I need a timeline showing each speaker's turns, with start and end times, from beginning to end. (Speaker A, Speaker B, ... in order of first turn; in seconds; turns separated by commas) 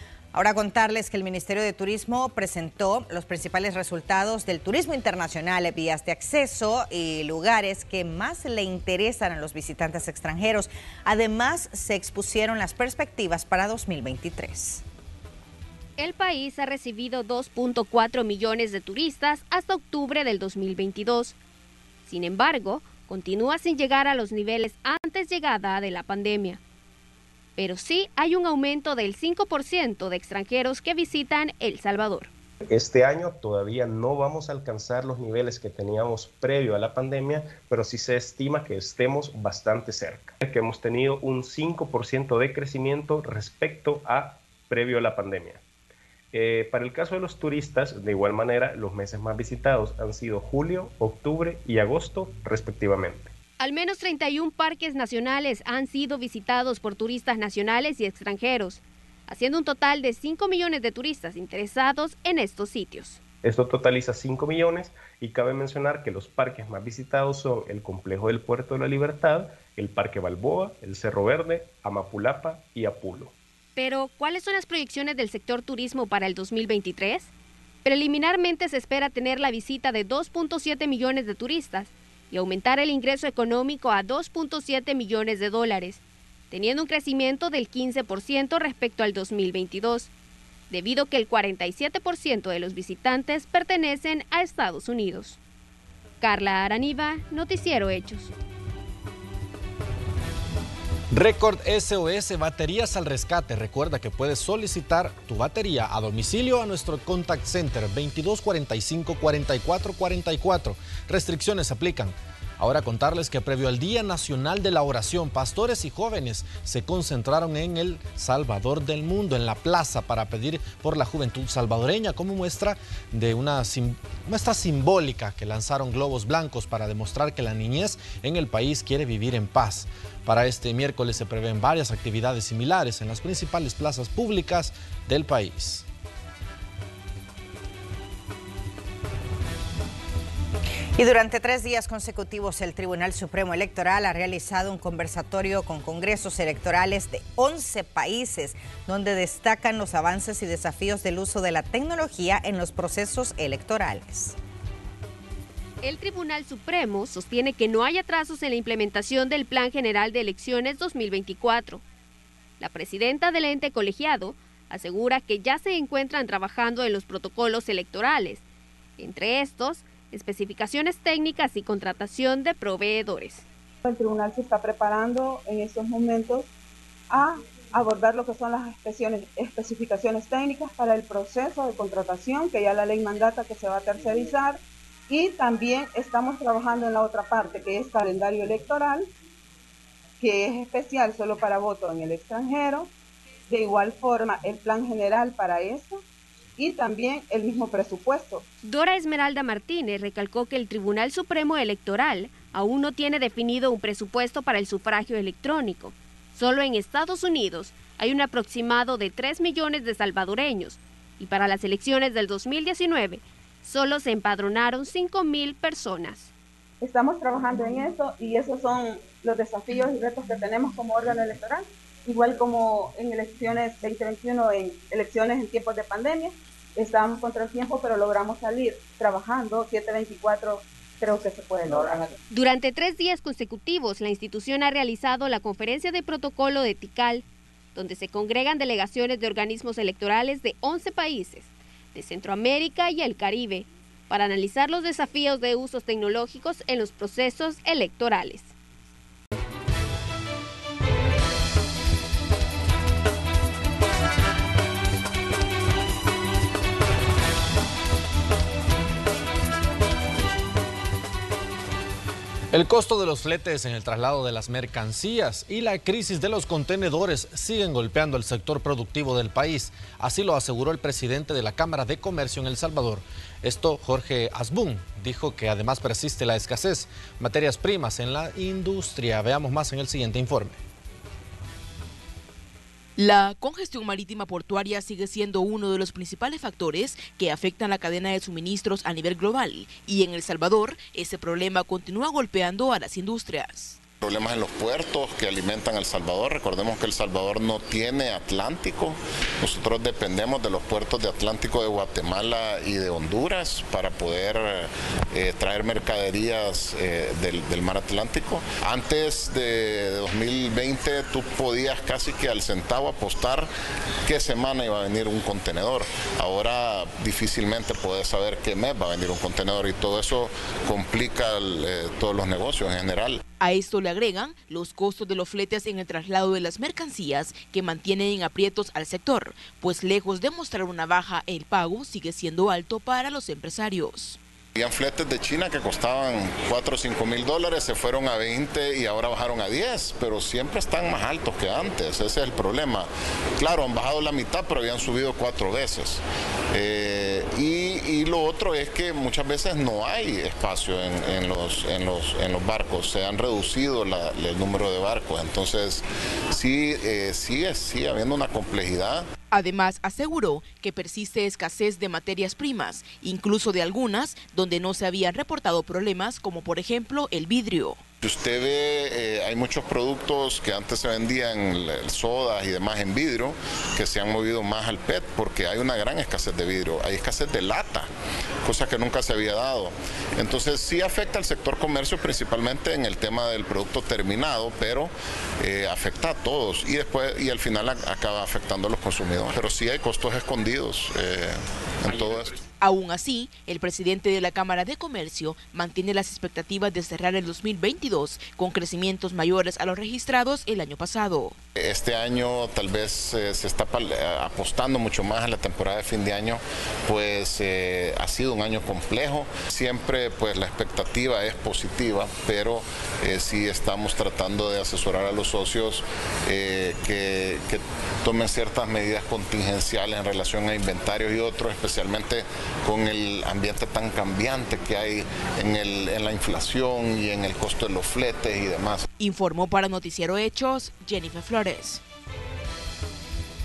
Speaker A: 0.3-14.8, Speaker B: 16.0-21.4, Speaker B: 22.1-26.6, Speaker B: 27.6-32.3, Speaker C: 32.6-45.6, Speaker C: 46.3-53.3, Speaker B: 53.6-63.2, Speaker C: 63.4-73.3, Speaker B: 73.8-77.3, Speaker B: 77.8-90.1, Speaker B: 90.7-95.4, Speaker B: 96.2-98.3, Speaker D: 101.1-135.8, Speaker A: 141.0-154.4, Speaker B: 155.8-161.8, Speaker B: 162.6-168.4, Speaker B: 169.0-173.4, Speaker E: 173.8-176.5, Speaker E: 177.1-189.1, Speaker E: 190.2-192.9, Speaker E: 193.5-196.0, Speaker E: 196.6-198.4, Speaker B: 198.6-216.3, Speaker E: 216.8-232.1, Speaker B: 232.3-248.5, Speaker D: 262.5-280.6, Speaker F: 283.0-293.8, Speaker G: 294.0-313.5, Speaker G: 314.1-323.2, Speaker F: 323.4-334.2, Speaker G: 334.6-359.1, Speaker F: 359.3-367.8, Speaker G: 368.0-377.9, Speaker G: 378.4-392.4, Speaker F: 392.6-401.4, Speaker G: 401.6-428.9, Speaker F: 429.0-431.8